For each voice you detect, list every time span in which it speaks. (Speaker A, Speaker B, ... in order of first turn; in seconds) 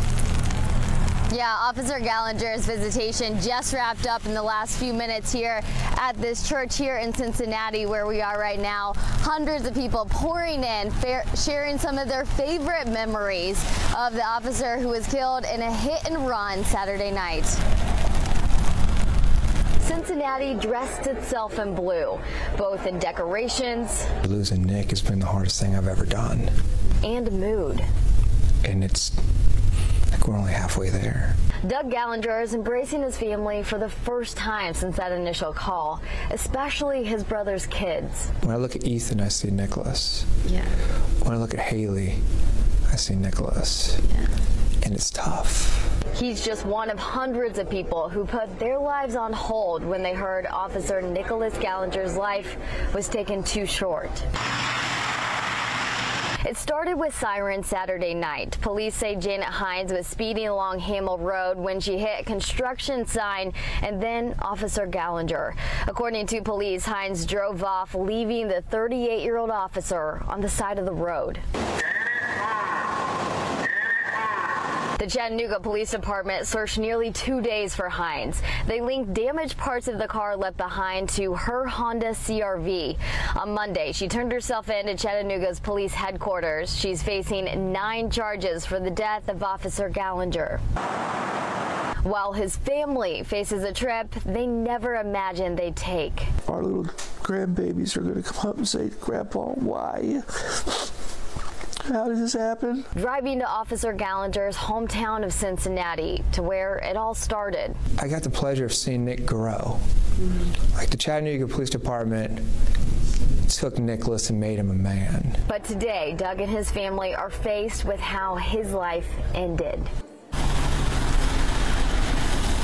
Speaker A: 1.3-17.6, 19.8-24.1, 27.0-27.9, 31.6-38.3, 46.1-54.2, 56.4-71.4, 75.0-90.6, 92.0-96.3, 102.9-107.8, 115.5-119.9
Speaker B: 24.2-26.5, 28.6-29.2, 30.1-31.4, 38.4-40.3, 41.2-42.2, 42.9-44.0, 44.8-45.9, 108.0-109.8, 110.7-112.4, 113.5-115.4
Speaker C: 96.5-100.7, 101.8-102.9